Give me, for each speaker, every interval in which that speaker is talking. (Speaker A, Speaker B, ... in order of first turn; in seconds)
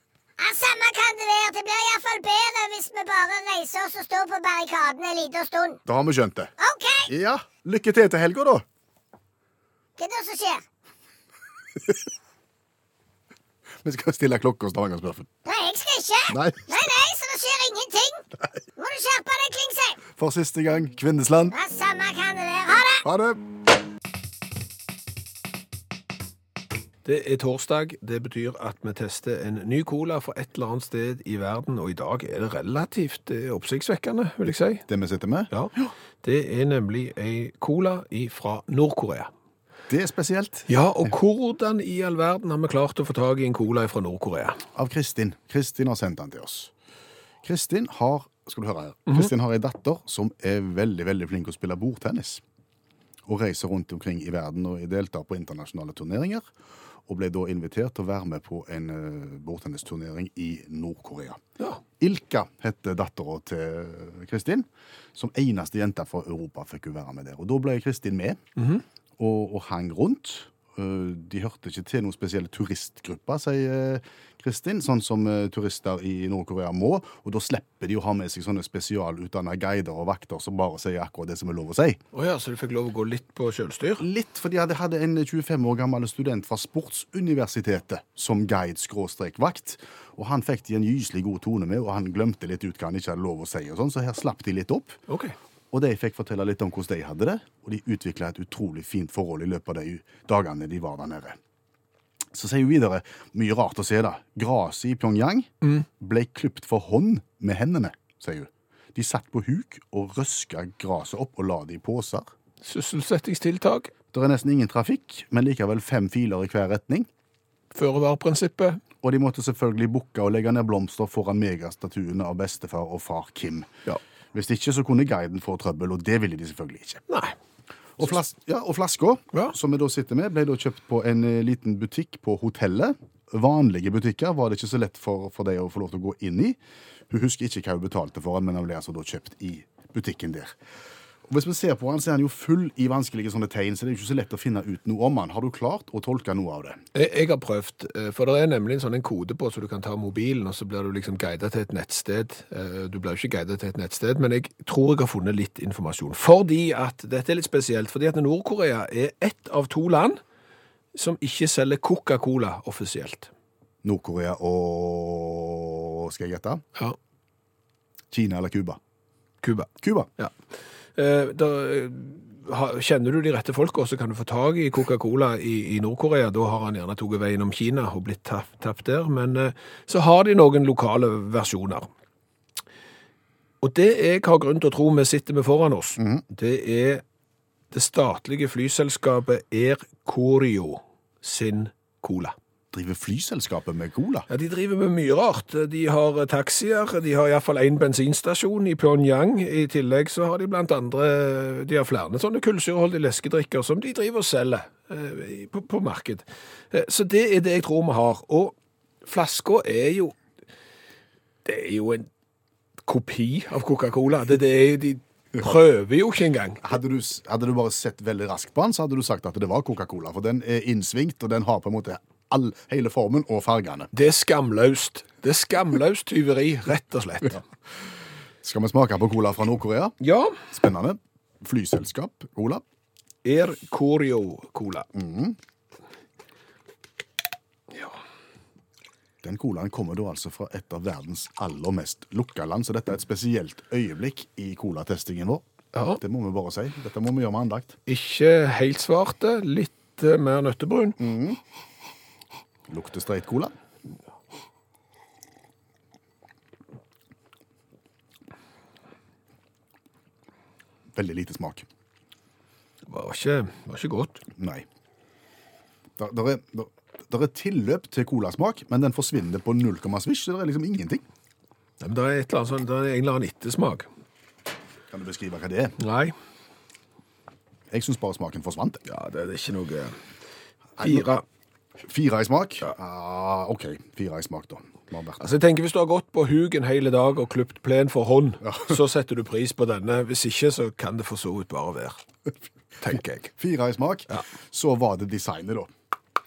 Speaker A: 0.4-5.8, 6.6-7.1, 10.0-10.6, 15.4-18.2, 18.8-20.0, 21.5-23.1
Speaker B: 5.8-6.5, 7.1-8.6, 13.8-15.3, 16.3-16.8, 20.2-21.5, 23.0-23.4, 34.9-35.9, 39.9-40.7, 44.7-46.7, 47.4-52.4, 53.2-56.5, 57.1-61.4, 62.0-68.4, 69.2-82.0, 84.0-95.0, 95.7-101.4, 102.3-112.3, 114.1-117.1, 119.0-123.7, 124.3-127.0, 128.0-140.6, 141.3-146.8, 163.8-166.6, 168.1-168.8, 169.8-170.1, 186.0-186.2, 192.7-194.3, 216.6-223.9, 228.4-229.9, 230.5-232.6, 234.9-235.4, 239.2-245.4, 245.9-247.8, 251.0-251.4, 252.7-253.5, 260.9-261.6, 264.4-264.6, 266.0-271.0, 274.9-275.8, 277.7-278.8, 280.8-281.1, 281.8-285.2, 288.4-288.8, 292.9-295.7
Speaker C: 27.0-34.8, 35.5-39.3, 40.7-44.6, 68.6-68.8, 82.1-84.0, 95.1-95.3, 112.6-113.9, 117.7-118.8, 127.1-127.3, 146.9-160.2, 160.9-163.3, 169.4-170.3, 170.9-181.9, 183.6-187.0, 187.7-192.3, 194.3-210.2, 211.4-212.1, 212.8-216.6, 223.9-227.4, 230.0-230.4, 233.2-234.9, 237.7-238.0, 245.7-246.0, 247.9-251.0, 262.9-264.2, 271.8-273.9, 275.8-276.1, 278.9-279.9, 280.8-281.2, 285.2-292.0, 292.8-293.3